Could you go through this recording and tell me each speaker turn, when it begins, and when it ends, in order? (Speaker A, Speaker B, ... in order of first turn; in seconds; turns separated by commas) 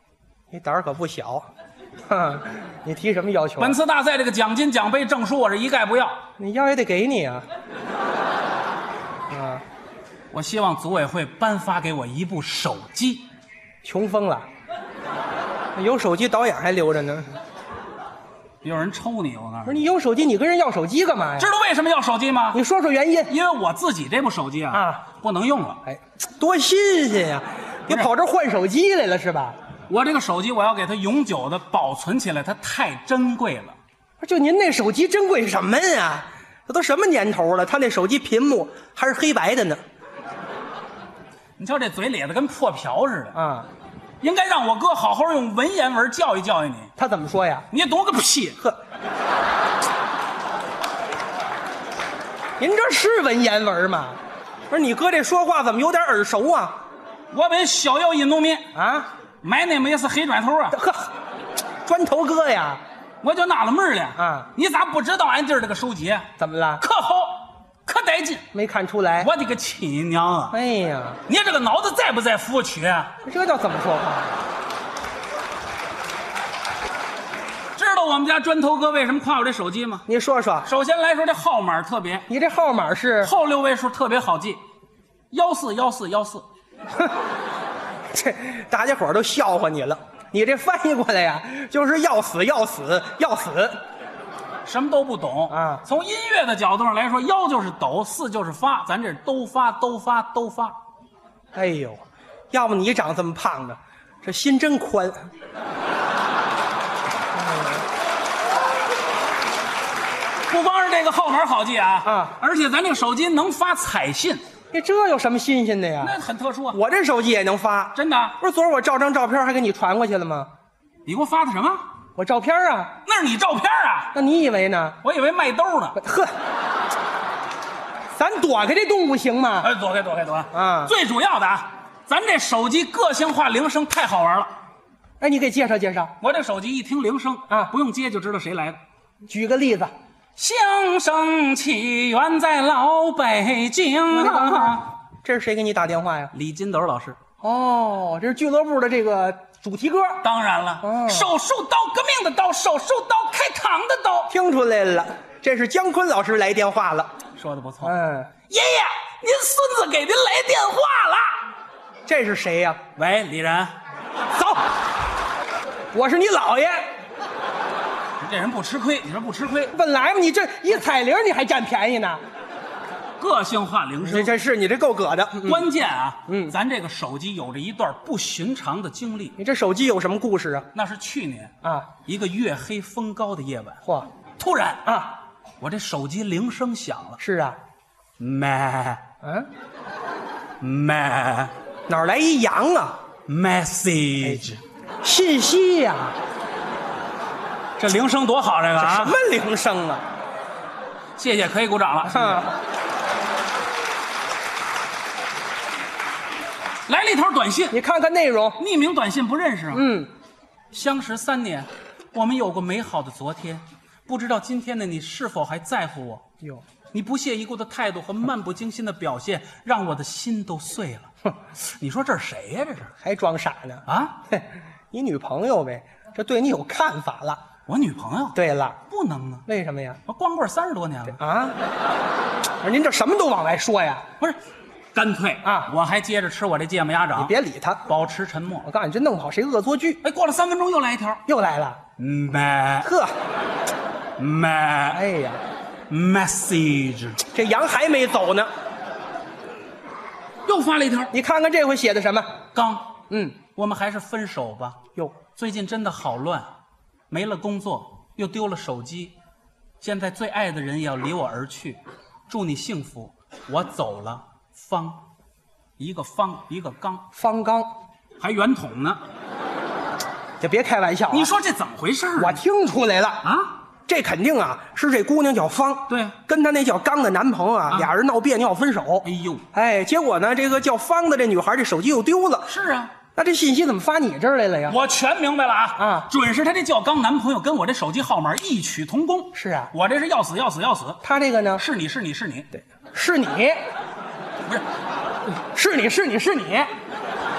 Speaker A: 0.5-1.5, Speaker A: 2.1-3.8, Speaker B: 3.6-6.2, Speaker A: 6.4-7.5, Speaker A: 9.3-9.6, Speaker B: 10.3-13.2, Speaker A: 13.8-14.5, Speaker A: 15.8-17.4, Speaker B: 18.6-19.8, Speaker A: 19.6-21.5, Speaker B: 21.4-22.6, Speaker A: 22.5-23.3, Speaker B: 23.3-25.8, Speaker A: 24.7-25.0, Speaker A: 25.9-29.6, Speaker B: 29.9-33.8, Speaker A: 34.2-39.8, Speaker B: 41.6-43.4, Speaker A: 43.3-43.7, Speaker B: 44.2-46.9, Speaker A: 47.0-47.6, Speaker B: 47.7-48.6, Speaker A: 52.6-54.2, Speaker A: 54.7-56.8, Speaker B: 57.3-58.7, Speaker A: 58.7-59.1, Speaker B: 59.4-60.8, Speaker A: 60.7-61.1, Speaker A: 61.8-62.8, Speaker B: 63.2-66.3, Speaker A: 64.2-64.5, Speaker A: 66.4-66.8, Speaker B: 66.8-68.4, Speaker A: 68.5-69.3, Speaker B: 69.2-70.5, Speaker A: 70.5-71.2, Speaker B: 71.3-73.1, Speaker A: 73.2-74.4, Speaker B: 77.8-80.0, Speaker A: 80.1-80.7, Speaker B: 80.6-82.3, Speaker A: 82.3-83.3, Speaker B: 83.2-84.6, Speaker B: 85.3-86.4, Speaker A: 88.1-93.8, Speaker B: 94.6-100.8, Speaker A: 95.5-95.8, Speaker A: 101.5-105.2, Speaker A: 107.3-107.8, Speaker B: 110.5-114.4, Speaker A: 112.0-112.3, Speaker A: 114.7-116.1, Speaker B: 116.0-116.8, Speaker A: 116.7-120.5, Speaker B: 117.9-118.4, Speaker B: 121.0-121.8, Speaker A: 122.2-122.9, Speaker B: 123.0-124.1, Speaker A: 124.1-125.0, Speaker B: 125.0-126.0, Speaker A: 126.0-126.3, Speaker A: 128.1-129.7, Speaker B: 129.6-134.5, Speaker A: 130.5-130.9, Speaker A: 135.2-136.1, Speaker B: 136.2-138.8, Speaker A: 139.3-139.9, Speaker B: 140.3-144.9, Speaker A: 144.1-146.3, Speaker B: 146.3-147.2, Speaker A: 147.4-150.2, Speaker B: 150.2-154.3, Speaker A: 150.8-151.3, Speaker A: 154.3-157.1, Speaker B: 157.3-157.9, Speaker A: 157.8-158.3, Speaker B: 158.5-161.4, Speaker A: 162.1-162.8, Speaker B: 162.9-163.7, Speaker A: 164.3-164.7, Speaker A: 165.9-166.8, Speaker B: 168.2-169.7, Speaker A: 169.7-172.2, Speaker B: 173.2-174.3, Speaker A: 174.0-175.7, Speaker B: 175.4-179.4, Speaker A: 176.3-176.5, Speaker A: 179.4-180.7, Speaker B: 180.7-183.8, Speaker A: 183.8-184.1, Speaker B: 184.4-184.9, Speaker A: 184.8-185.2, Speaker B: 185.6-187.2, Speaker A: 187.2-187.6, Speaker B: 188.2-189.0, Speaker A: 189.2-189.5, Speaker B: 190.6-191.5, Speaker A: 191.9-193.0, Speaker B: 193.3-194.6, Speaker A: 195.0-196.2, Speaker B: 197.8-199.1, Speaker A: 198.8-200.0, Speaker B: 201.2-202.5, Speaker A: 202.1-202.5, Speaker B: 206.9-207.8, Speaker A: 207.7-208.6, Speaker B: 208.6-209.9, Speaker A: 209.7-210.1, Speaker B: 210.7-216.2, Speaker B: 216.9-222.9, Speaker A: 223.0-227.4, Speaker B: 223.9-224.2, Speaker B: 227.7-228.4, Speaker A: 228.3-228.8, Speaker B: 228.9-229.4, Speaker A: 229.5-230.0, Speaker B: 230.1-231.2, Speaker A: 231.2-231.6, Speaker A: 232.6-234.0, Speaker B: 234.9-237.3, Speaker A: 235.4-235.7, Speaker A: 237.2-237.8, Speaker B: 237.8-238.7, Speaker A: 238.7-240.0, Speaker B: 240.0-241.2, Speaker A: 241.3-241.8, Speaker B: 242.0-242.9, Speaker A: 242.8-243.1, Speaker B: 244.2-245.0, Speaker A: 244.9-245.4, Speaker B: 245.9-247.2, Speaker A: 247.3-248.5, Speaker B: 250.4-251.1, Speaker A: 251.1-252.3, Speaker B: 252.5-253.0, Speaker A: 253.1-253.4, Speaker B: 253.5-254.8, Speaker B: 255.3-256.5, Speaker B: 257.1-259.1, Speaker B: 259.8-265.0, Speaker B: 265.8-267.0, Speaker A: 267.1-267.7, Speaker B: 268.2-269.0, Speaker A: 270.4-271.3, Speaker B: 271.1-272.4, Speaker A: 272.2-273.2, Speaker B: 273.2-273.5, Speaker A: 273.9-282.5, Speaker B: 275.9-276.1, Speaker B: 279.0-279.4, Speaker B: 282.5-282.9, Speaker A: 283.1-284.8, Speaker B: 284.7-291.0, Speaker A: 285.8-286.1, Speaker A: 289.3-289.7, Speaker A: 291.0-291.6, Speaker B: 291.6-292.5, Speaker A: 292.5-293.6, Speaker A: 295.3-296.7